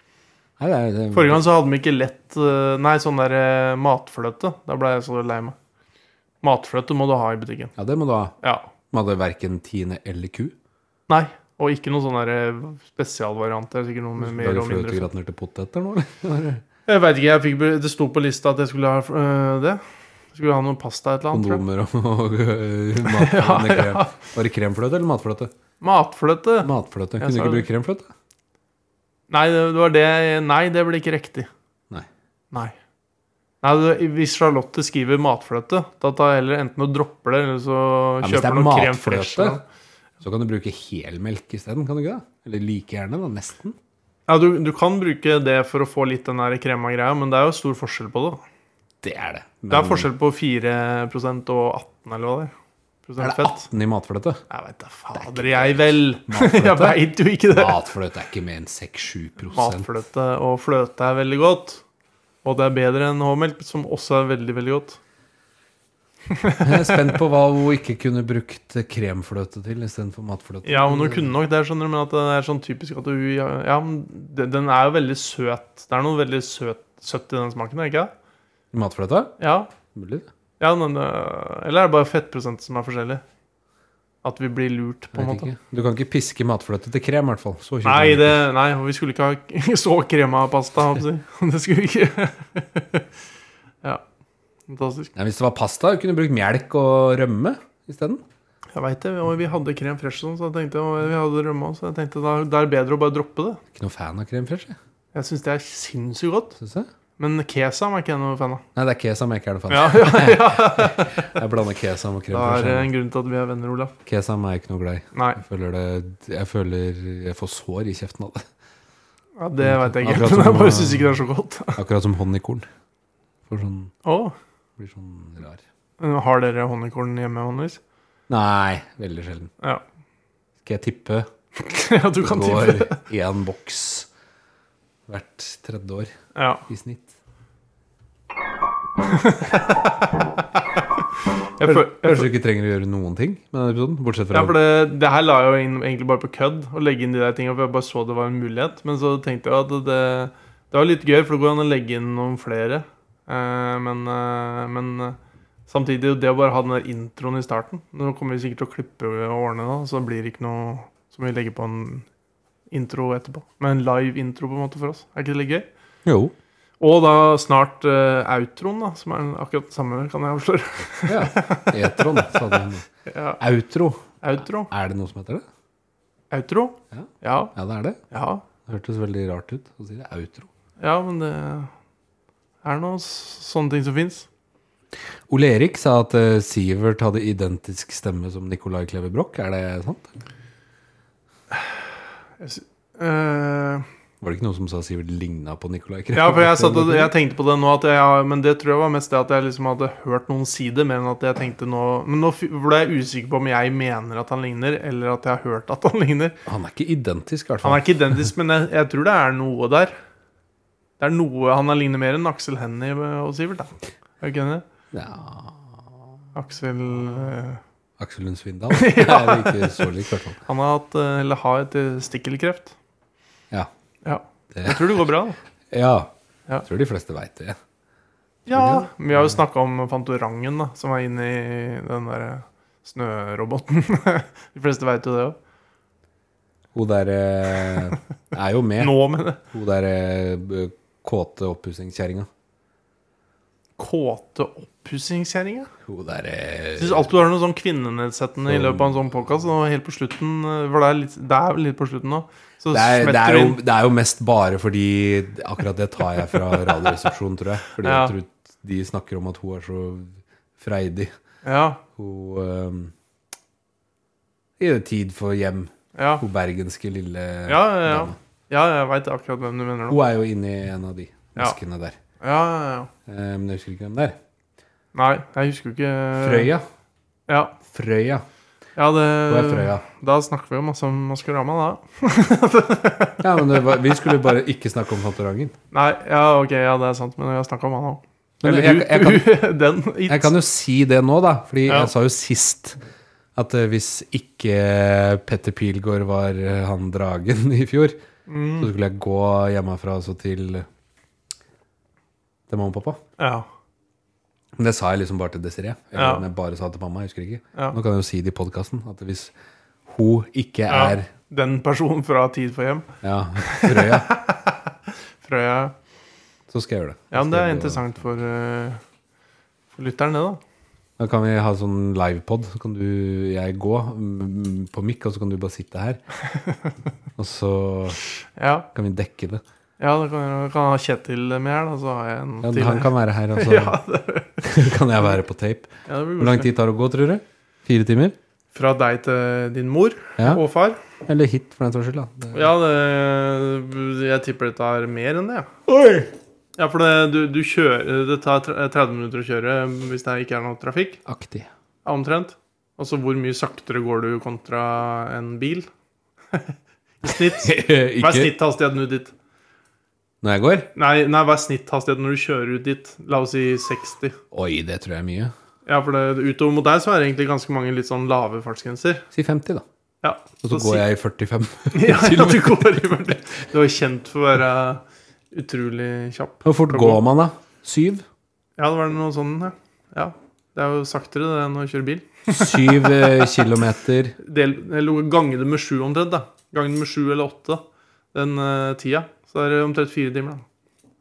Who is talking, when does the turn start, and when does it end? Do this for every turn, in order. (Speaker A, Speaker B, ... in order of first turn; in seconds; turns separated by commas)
Speaker A: 0.6-1.5, Speaker B: 1.1-5.6, Speaker B: 6.4-7.7, Speaker A: 7.8-8.3, Speaker B: 8.4-8.7, Speaker A: 8.9-10.5, Speaker B: 11.1-15.1, Speaker A: 14.2-16.6, Speaker B: 16.9-19.8, Speaker B: 20.3-21.6, Speaker A: 21.3-25.5, Speaker B: 23.1-24.2, Speaker B: 25.8-27.7, Speaker A: 26.6-28.1, Speaker B: 29.3-31.5, Speaker B: 33.6-39.6, Speaker A: 38.2-39.6, Speaker A: 40.2-43.8, Speaker B: 44.3-48.4, Speaker A: 49.0-50.1, Speaker B: 49.7-52.5, Speaker B: 53.1-53.7, Speaker A: 53.2-54.4, Speaker B: 54.5-57.8, Speaker A: 55.1-59.9, Speaker B: 59.5-61.8, Speaker B: 62.4-65.0, Speaker B: 66.3-67.1, Speaker A: 66.6-71.3, Speaker B: 70.7-78.1, Speaker A: 78.7-79.3, Speaker B: 79.4-79.7, Speaker A: 79.9-80.3, Speaker B: 80.6-83.2, Speaker B: 84.2-85.5, Speaker A: 85.1-88.4, Speaker B: 87.8-93.0, Speaker B: 94.7-95.1, Speaker A: 95.2-98.2, Speaker B: 98.7-103.6, Speaker A: 103.7-104.8, Speaker B: 105.1-106.6, Speaker A: 106.6-106.9, Speaker B: 107.2-108.6, Speaker A: 108.8-112.9, Speaker B: 109.7-111.3, Speaker B: 112.3-113.9, Speaker A: 114.1-118.5, Speaker B: 115.1-115.4, Speaker B: 119.4-121.8, Speaker A: 119.6-121.2, Speaker A: 121.8-122.7, Speaker A: 123.5-123.9, Speaker B: 124.0-124.3, Speaker A: 124.8-125.6, Speaker B: 126.0-127.8, Speaker A: 128.3-129.5, Speaker A: 130.6-131.3, Speaker B: 131.6-133.0, Speaker A: 132.2-134.1, Speaker A: 135.1-136.1, Speaker B: 136.3-136.7, Speaker A: 136.7-137.1, Speaker B: 139.1-140.3, Speaker B: 141.6-142.3, Speaker A: 141.6-144.6, Speaker B: 144.3-155.2, Speaker B: 155.7-162.1, Speaker B: 162.7-165.7, Speaker A: 166.1-166.3, Speaker B: 166.8-173.4, Speaker A: 171.1-172.9, Speaker A: 173.4-174.1, Speaker B: 174.2-174.7, Speaker A: 174.7-175.4, Speaker B: 176.3-177.5, Speaker A: 176.9-178.0, Speaker B: 178.1-178.4, Speaker A: 178.7-180.5, Speaker B: 180.8-181.7, Speaker B: 182.6-184.3, Speaker A: 185.3-190.1, Speaker B: 191.5-191.8, Speaker B: 192.4-193.9, Speaker A: 194.2-197.1, Speaker B: 196.1-206.4, Speaker A: 206.5-207.9, Speaker B: 207.6-209.9, Speaker B: 211.0-214.6, Speaker A: 214.9-215.8, Speaker B: 216.3-217.6, Speaker A: 218.0-220.4, Speaker B: 218.7-219.9, Speaker B: 220.4-222.8, Speaker B: 224.0-225.4, Speaker A: 224.5-224.9, Speaker A: 225.7-226.1, Speaker A: 226.7-227.6, Speaker B: 228.5-235.4, Speaker A: 228.5-229.4, Speaker A: 236.7-242.3, Speaker B: 238.8-239.4, Speaker B: 243.8-245.7, Speaker A: 245.8-247.1, Speaker B: 246.8-253.6, Speaker A: 248.4-249.1, Speaker A: 252.7-261.1, Speaker B: 256.4-256.9, Speaker B: 257.8-258.1, Speaker B: 261.4-261.8, Speaker A: 262.0-262.9, Speaker A: 264.6-268.2, Speaker B: 265.9-266.2, Speaker B: 267.5-270.0, Speaker A: 269.9-272.0, Speaker B: 272.2-272.9, Speaker A: 273.1-274.2, Speaker B: 274.9-276.5, Speaker A: 276.2-276.6, Speaker B: 277.3-277.6, Speaker A: 277.7-278.2, Speaker B: 278.8-284.1, Speaker A: 279.3-279.8, Speaker A: 283.2-285.5, Speaker B: 285.7-290.3, Speaker A: 288.4-289.3, Speaker A: 290.1-292.8, Speaker A: 293.4-298.0, Speaker B: 298.3-298.7, Speaker A: 298.6-300.7, Speaker A: 302.5-303.0, Speaker B: 303.2-303.5, Speaker A: 304.6-309.3, Speaker B: 306.0-306.2, Speaker A: 309.9-311.1, Speaker B: 310.7-312.9, Speaker A: 313.0-314.1, Speaker B: 313.4-315.7, Speaker A: 316.5-317.9, Speaker B: 317.1-318.8, Speaker B: 319.7-320.4, Speaker A: 321.0-326.0, Speaker A: 327.2-328.0, Speaker B: 328.4-328.7, Speaker A: 328.7-329.4, Speaker B: 329.8-334.6, Speaker A: 332.4-333.8, Speaker A: 334.4-338.2, Speaker B: 335.9-336.5, Speaker B: 338.6-340.8, Speaker A: 341.1-342.5, Speaker B: 342.3-345.5, Speaker A: 345.7-346.1, Speaker B: 346.6-351.0, Speaker A: 351.1-351.5, Speaker B: 351.9-355.7, Speaker B: 356.3-359.1, Speaker A: 357.1-358.4, Speaker A: 360.2-360.7, Speaker B: 360.8-364.2, Speaker A: 364.3-365.3, Speaker B: 365.7-369.1, Speaker A: 369.1-369.6, Speaker B: 370.0-370.9, Speaker A: 370.4-373.1, Speaker B: 371.7-377.0, Speaker A: 376.4-378.1, Speaker B: 378.6-383.4, Speaker A: 382.3-384.2, Speaker B: 384.2-387.6, Speaker B: 388.1-390.4